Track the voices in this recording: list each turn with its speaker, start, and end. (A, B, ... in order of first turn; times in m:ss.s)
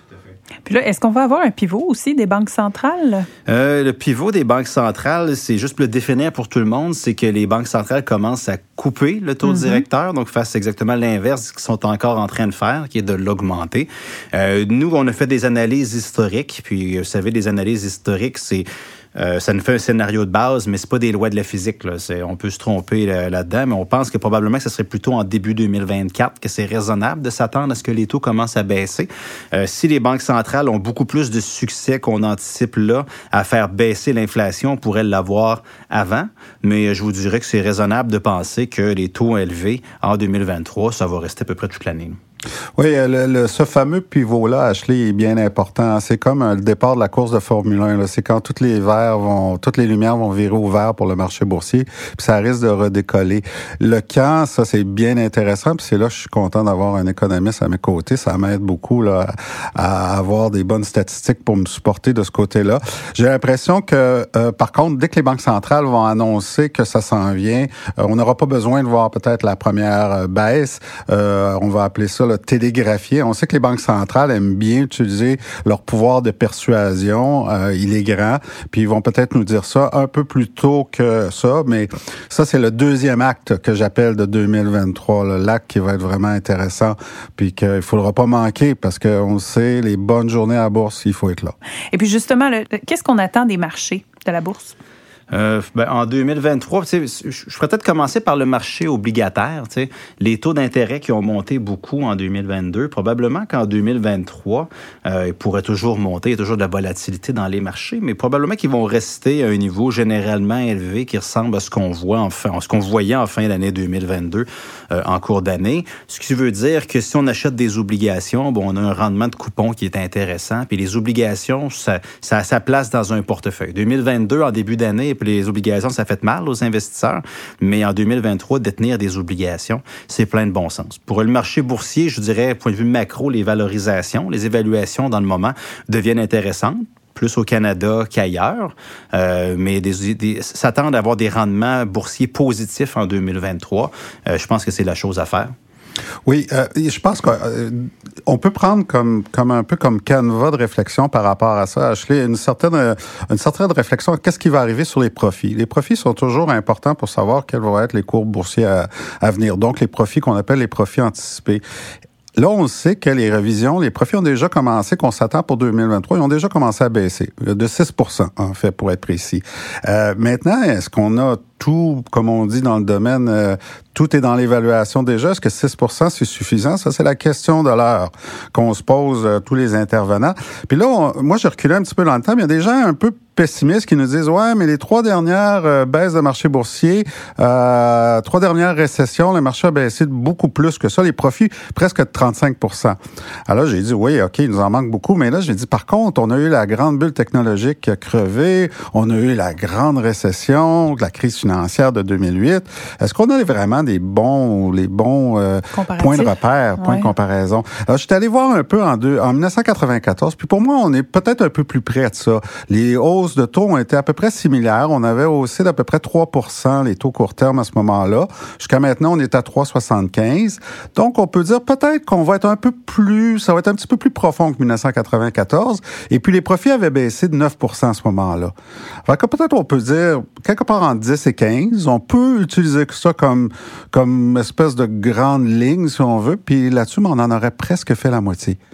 0:00.7-0:03.3 A
0:03.5-0:42.2 B
0:09.4-0:09.8 A
0:42.8-1:31.6 C
1:31.9-1:34.8 A
1:35.3-2:25.5 B
2:26.2-2:41.6 C
2:42.4-3:48.5 C
3:25.7-3:27.1 A
3:49.0-3:58.6 C